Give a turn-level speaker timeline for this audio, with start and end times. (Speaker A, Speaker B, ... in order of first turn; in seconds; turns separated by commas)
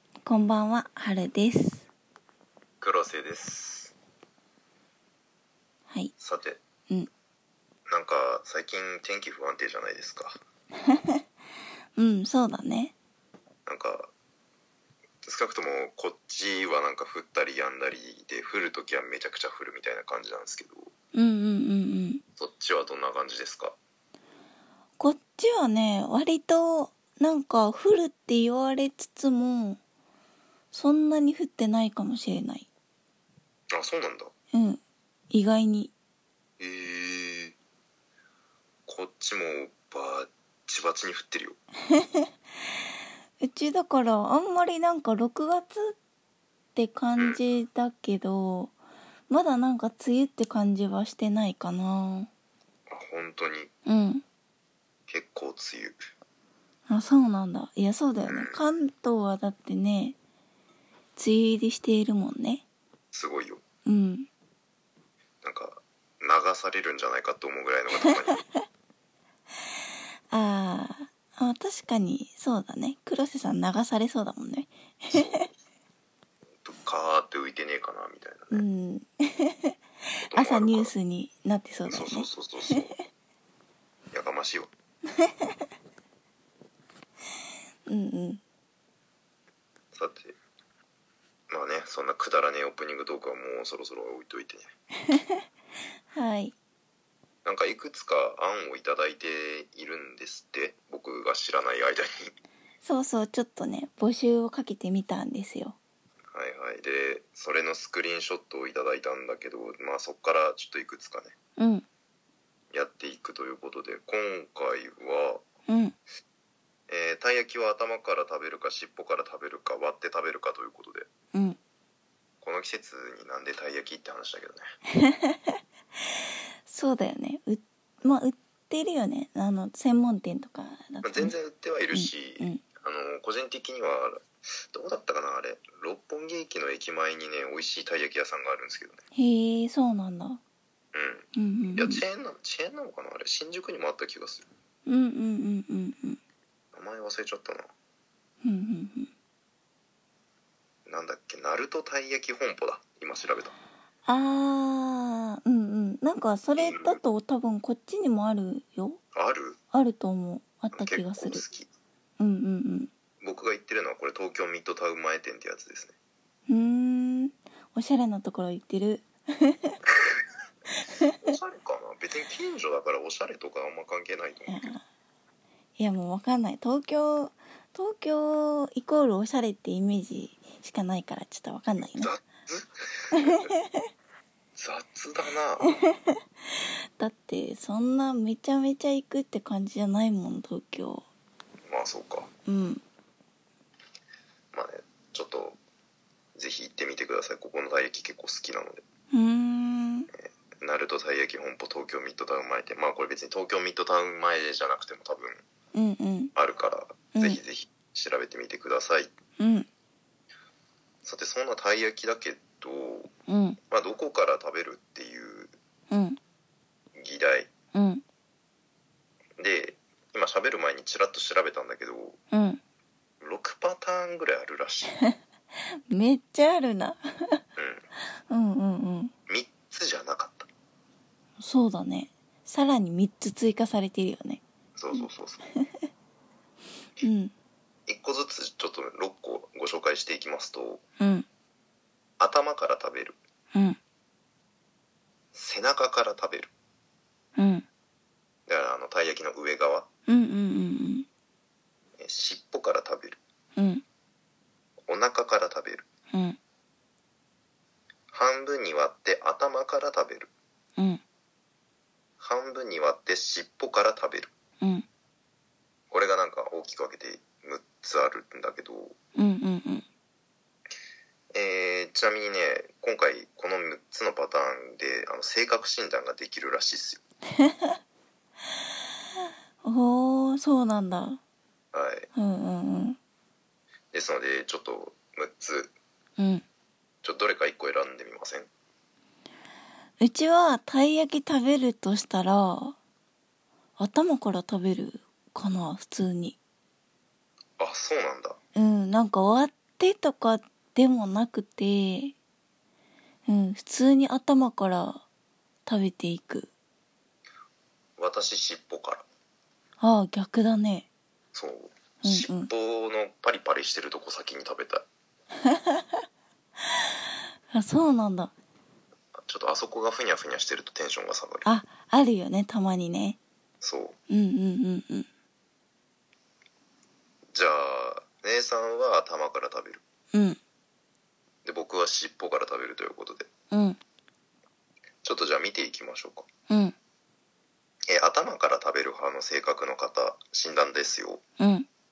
Speaker A: 0.2-1.9, Speaker B: 2.8-3.9, Speaker B: 6.2-6.6, Speaker B: 7.9-10.4, Speaker A: 10.9-11.2, Speaker A: 12.0-12.9, Speaker B: 13.7-14.1, Speaker B: 15.2-20.9, Speaker A: 21.1-22.2, Speaker B: 22.4-23.8, Speaker A: 25.0-29.8, Speaker A: 30.7-32.7, Speaker B: 33.7-34.3, Speaker A: 34.5-35.9, Speaker B: 36.6-37.5, Speaker B: 38.9-41.6, Speaker A: 41.9-42.3, Speaker A: 43.4-46.0, Speaker A: 46.8-48.7, Speaker A: 49.3-52.3, Speaker B: 52.9-53.7, Speaker A: 53.9-54.2, Speaker B: 55.1-56.0, Speaker A: 56.9-60.2, Speaker B: 58.2-58.6, Speaker A: 61.2-62.6, Speaker B: 63.1-63.6, Speaker A: 63.9-64.3, Speaker B: 65.4-68.4, Speaker A: 70.3-75.5, Speaker B: 75.1-75.5, Speaker B: 76.6-78.7, Speaker A: 78.5-79.8, Speaker B: 80.3-80.9, Speaker A: 80.3-82.3, Speaker B: 81.9-82.9, Speaker B: 84.1-84.7, Speaker A: 85.1-85.6, Speaker A: 87.9-88.4, Speaker B: 89.9-90.3, Speaker B: 91.5-94.7, Speaker A: 95.1-95.4, Speaker A: 96.1-96.5, Speaker B: 97.5-102.3, Speaker A: 102.8-105.8, Speaker B: 106.3-111.3, Speaker A: 111.6-111.9, Speaker B: 112.7-115.5, Speaker A: 115.7-116.0, Speaker B: 116.9-121.1, Speaker B: 122.4-124.7, Speaker A: 125.0-125.6, Speaker A: 126.7-131.3, Speaker B: 131.0-139.0, Speaker A: 131.9-132.6, Speaker A: 139.2-140.4, Speaker B: 140.9-144.5, Speaker A: 141.3-142.0, Speaker A: 144.9-146.2, Speaker B: 146.7-147.7, Speaker A: 148.4-149.1, Speaker B: 150.9-153.6, Speaker A: 154.1-159.0, Speaker B: 156.6-157.0, Speaker B: 159.2-159.6, Speaker A: 159.7-161.4, Speaker B: 160.7-161.7, Speaker A: 162.2-162.9, Speaker B: 163.2-165.9, Speaker A: 166.5-169.8, Speaker A: 170.8-171.3, Speaker B: 171.1-174.7, Speaker A: 174.5-174.8, Speaker A: 175.8-182.1, Speaker B: 181.9-183.6, Speaker A: 183.2-183.8, Speaker B: 184.6-185.7, Speaker A: 187.0-191.1, Speaker B: 191.7-192.3, Speaker A: 192.5-192.8, Speaker B: 194.5-195.6, Speaker B: 196.4-198.8, Speaker A: 199.1-200.1, Speaker B: 200.1-205.4, Speaker A: 205.7-206.3, Speaker B: 206.3-209.1, Speaker A: 209.4-209.7, Speaker B: 211.0-213.1, Speaker A: 213.3-213.6, Speaker B: 213.7-215.5, Speaker A: 215.9-216.2, Speaker B: 216.9-217.5, Speaker A: 217.7-218.0, Speaker B: 219.4-222.2, Speaker A: 222.3-222.6, Speaker B: 223.2-225.0, Speaker A: 225.9-227.4, Speaker B: 227.6-227.8, Speaker A: 228.3-229.1, Speaker B: 229.3-230.5, Speaker A: 231.4-235.1, Speaker B: 234.8-235.4, Speaker A: 235.6-235.9, Speaker A: 237.0-237.3, Speaker B: 237.9-240.8, Speaker A: 241.0-241.3, Speaker B: 242.2-243.2, Speaker B: 245.3-246.5, Speaker A: 247.4-247.7, Speaker B: 248.5-249.9, Speaker A: 250.1-251.1, Speaker B: 252.0-253.2, Speaker A: 253.6-253.8, Speaker B: 254.9-255.8, Speaker A: 256.1-256.4, Speaker B: 258.1-260.3, Speaker A: 260.8-261.0, Speaker B: 262.2-264.3, Speaker A: 264.6-264.9, Speaker B: 265.9-269.0, Speaker A: 269.2-269.9, Speaker B: 271.3-277.0, Speaker A: 277.4-277.8, Speaker A: 279.6-281.2, Speaker B: 281.7-282.1, Speaker A: 282.1-283.0, Speaker B: 283.9-285.7, Speaker A: 286.2-286.4, Speaker B: 287.0-288.5, Speaker A: 290.0-292.8, Speaker A: 293.8-296.4, Speaker B: 297.6-298.4, Speaker A: 298.6-302.1, Speaker A: 303.3-305.0, Speaker A: 305.7-306.5, Speaker B: 308.0-309.1, Speaker A: 309.8-310.9, Speaker B: 311.3-314.9, Speaker A: 312.0-312.5, Speaker A: 315.4-316.0, Speaker A: 317.5-318.3, Speaker B: 319.2-321.5, Speaker A: 321.4-323.2, Speaker B: 323.6-324.0, Speaker A: 324.1-325.1, Speaker B: 327.3-329.8, Speaker A: 330.1-330.4, Speaker B: 331.4-333.3, Speaker A: 333.5-333.8, Speaker B: 335.0-336.3, Speaker A: 336.5-336.8, Speaker B: 337.9-341.2, Speaker A: 341.4-341.7